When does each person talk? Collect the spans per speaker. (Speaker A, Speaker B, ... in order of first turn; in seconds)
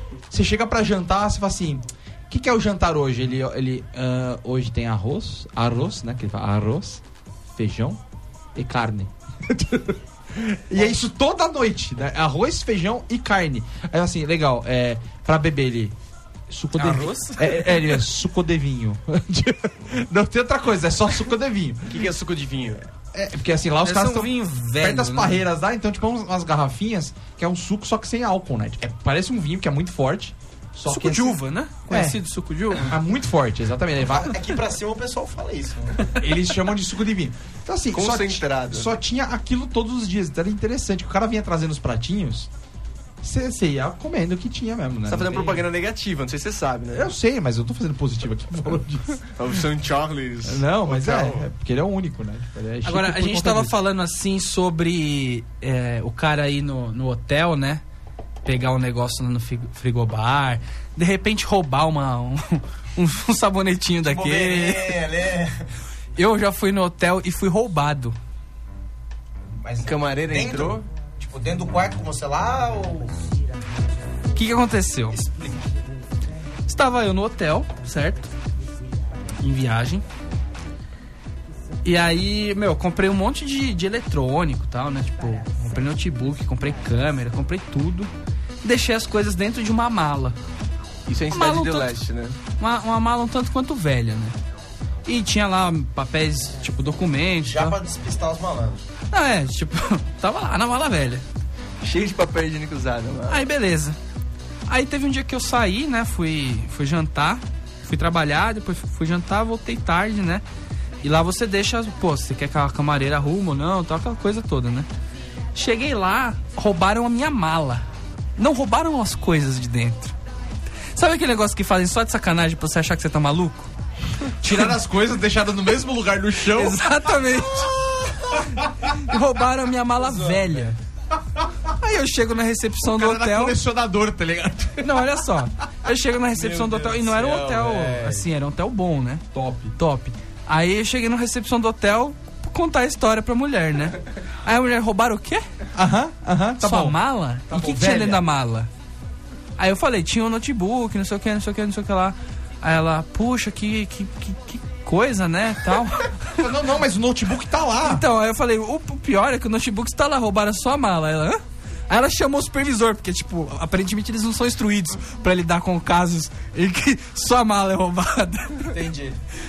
Speaker A: 0.3-7.0, 7.5-8.0, 8.5-15.9, 16.5-22.1, 23.1-32.2, 32.7-34.4, 36.1-42.5, 43.2-45.7, 46.9-49.2, 50.4-53.7, 124.4-126.8, 128.6-128.9, 132.8-135.2, 139.3-139.7, 145.7-148.2, 156.3-158.0
Speaker B: 16.8-17.7, 23.8-25.4, 30.9-32.9, 52.8-57.8, 58.4-65.0, 66.2-68.2, 74.3-75.2, 76.7-78.3, 79.4-80.0, 81.8-88.1, 88.6-90.4, 91.3-91.9, 92.6-94.4, 95.0-97.8, 99.1-101.2, 103.3-104.0, 104.7-110.4, 111.0-114.9, 115.5-117.8, 118.4-120.1, 120.9-123.7, 126.5-127.8, 128.9-130.8, 131.8-133.6, 134.8-139.2, 139.8-145.5, 146.6-148.7, 149.6-156.4, 157.8-168.8
Speaker C: 21.9-22.9, 37.9-38.9, 45.1-47.1, 49.4-51.5, 69.8-70.8, 91.1-92.4, 101.8-103.4
Speaker D: 34.0-36.2, 64.0-65.7, 69.6-73.2, 75.1-75.6, 97.4-98.8, 127.3-128.5, 130.0-130.7, 136.3-138.2, 168.7-169.2